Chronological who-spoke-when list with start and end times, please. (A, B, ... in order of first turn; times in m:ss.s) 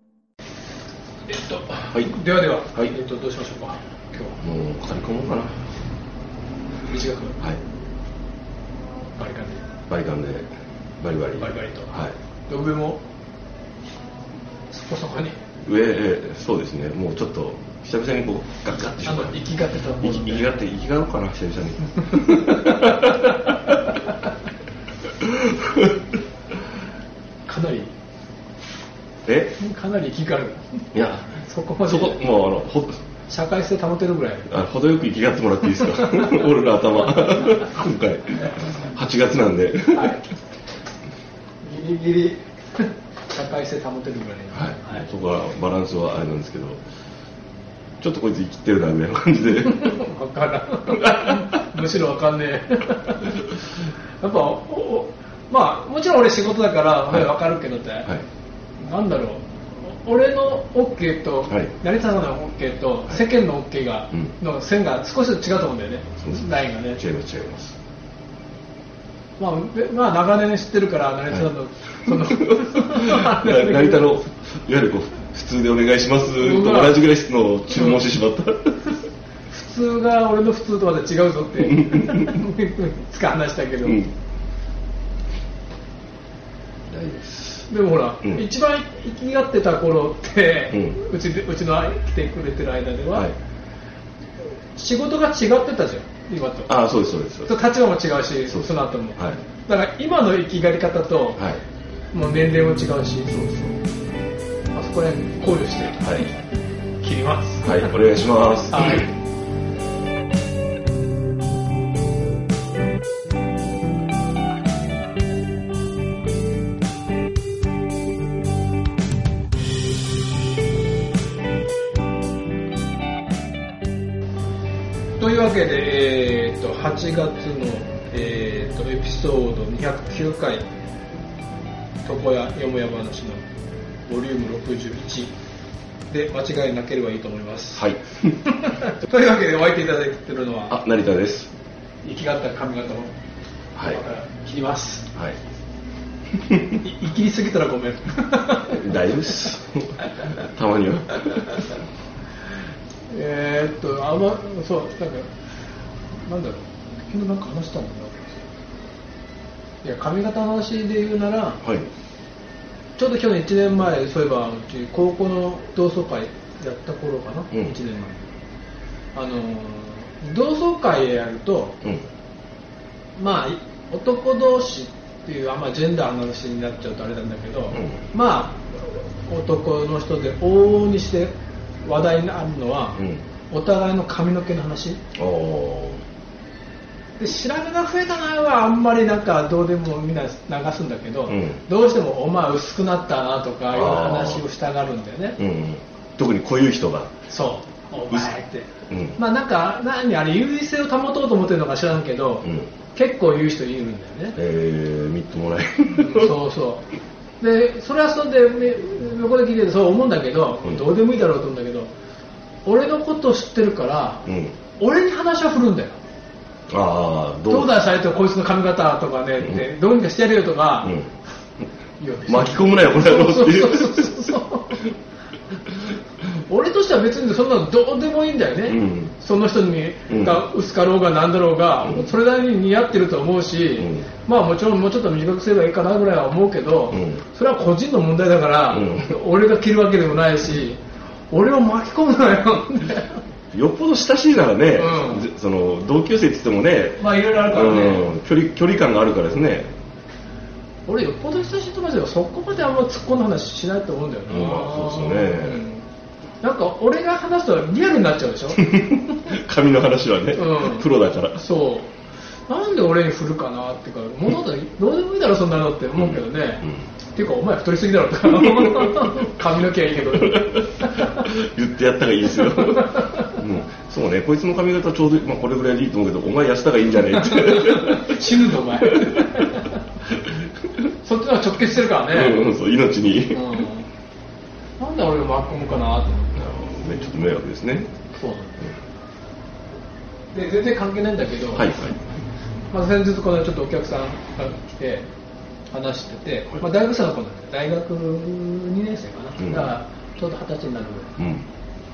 0:01.3-0:04.4 A
0:04.4-0:05.5 B
0:06.9-0:07.4 A
0:09.2-0:09.6 A
0:09.9-0:10.5 B
0:11.0-0:12.2 B
0:11.4-0:13.0 A
0:14.7-0:15.4 A
0:15.6-0:19.4 B
0:19.0-0:20.6 A
0:20.0-0:23.5 B
0:22.1-0:23.3 A
0:25.1-0:26.0 B
0:27.5-0:27.9 A
0:29.3-0:29.6 B
0:29.6-0:32.2 A
0:30.9-0:33.0 B
0:33.3-0:34.5 A
0:34.5-0:40.2 B
0:35.8-0:36.5 A
0:39.9-0:40.3 A
0:41.6-0:45.0 A
0:44.5-0:46.8 B
0:48.0-0:50.0 B
0:49.6-0:53.4 A
0:50.9-0:51.8 B
0:54.2-0:58.1 A
0:58.8-1:07.0 A
1:07.0-1:07.8 B
1:09.4-1:14.1 A
1:12.1-1:18.9 B
1:16.4-1:17.0 A
1:17.7-1:18.0 A
1:19.5-1:24.1 A
1:21.7-1:22.3 B
1:26.9-1:27.7 B
1:27.7-1:33.3 A
1:30.7-1:31.0 B
1:34.8-1:36.8 A
1:36.7-1:37.6 B
1:37.5-1:41.4 A
1:38.5-1:39.4 B
1:41.4-1:41.6 B
1:42.1-1:43.8 A
1:44.7-1:46.3 A
1:46.0-1:46.3 B
1:47.0-1:47.9 A
1:47.6-1:49.1 B
1:48.7-1:49.1 A
2:05.2-2:10.7 A
2:12.0-2:13.4 A
2:14.1-2:15.3 A
2:16.1-2:17.8 A
2:17.8-2:18.4 B
2:18.4-2:20.8 A
2:20.7-2:21.5 B
2:22.0-2:23.1 A
2:23.8-2:24.0 B
2:23.8-2:25.1 A
2:26.5-2:26.8 B
2:26.8-2:29.5 A
2:28.7-2:31.6 B
2:33.1-2:35.3 A
2:36.2-2:38.4 A
2:39.8-2:41.6 A
2:41.6-2:41.9 B
2:43.0-2:48.3 A
2:47.5-2:47.8 B
2:49.2-2:51.8 A
2:53.2-3:05.0 A
2:57.7-2:58.0 B
3:03.0-3:03.2 B
3:05.2-3:06.0 B
3:07.2-3:15.4 A
3:11.3-3:11.6 B
3:13.7-3:14.4 B
3:15.4-3:17.1 B
3:17.3-3:24.4 A
3:18.9-3:19.2 B
3:22.4-3:22.7 B
3:24.4-3:26.4 B
3:26.0-3:26.9 A
3:27.4-3:31.9 A
3:32.6-3:34.3 A
3:34.3-3:34.6 B
3:34.8-3:36.0 A
3:36.7-3:37.8 B
3:37.5-3:41.0 A
3:40.8-3:41.1 B
3:42.0-3:44.9 A
3:42.3-3:44.2 B
3:46.5-4:03.2 A
3:48.7-3:49.1 B
3:50.1-3:50.4 B
3:51.8-3:52.1 B
3:53.8-3:54.1 B
3:56.9-3:57.2 B
3:58.7-3:59.2 B
4:03.5-4:09.7 B
4:04.8-4:05.3 A
4:07.0-4:08.1 A
4:10.9-4:15.8 A
4:14.3-4:15.6 B
4:16.4-4:18.8 A
4:18.6-4:21.4 B
4:20.3-4:21.9 A
4:22.5-4:31.3 A
4:26.0-4:26.8 B
4:28.4-4:29.3 B
4:30.1-4:39.5 B
4:32.4-4:33.4 A
4:37.1-4:39.8 A
4:40.1-4:40.4 B
4:41.0-4:42.5 A
4:42.1-4:43.6 B
4:43.3-4:43.9 A
4:44.8-4:47.1 A
4:46.4-4:47.9 B
4:48.1-4:48.6 A
4:50.3-4:51.7 A
4:51.5-4:52.0 B
4:52.7-4:55.1 A
4:55.7-5:01.2 A
4:59.4-4:59.7 B
5:01.2-5:01.5 B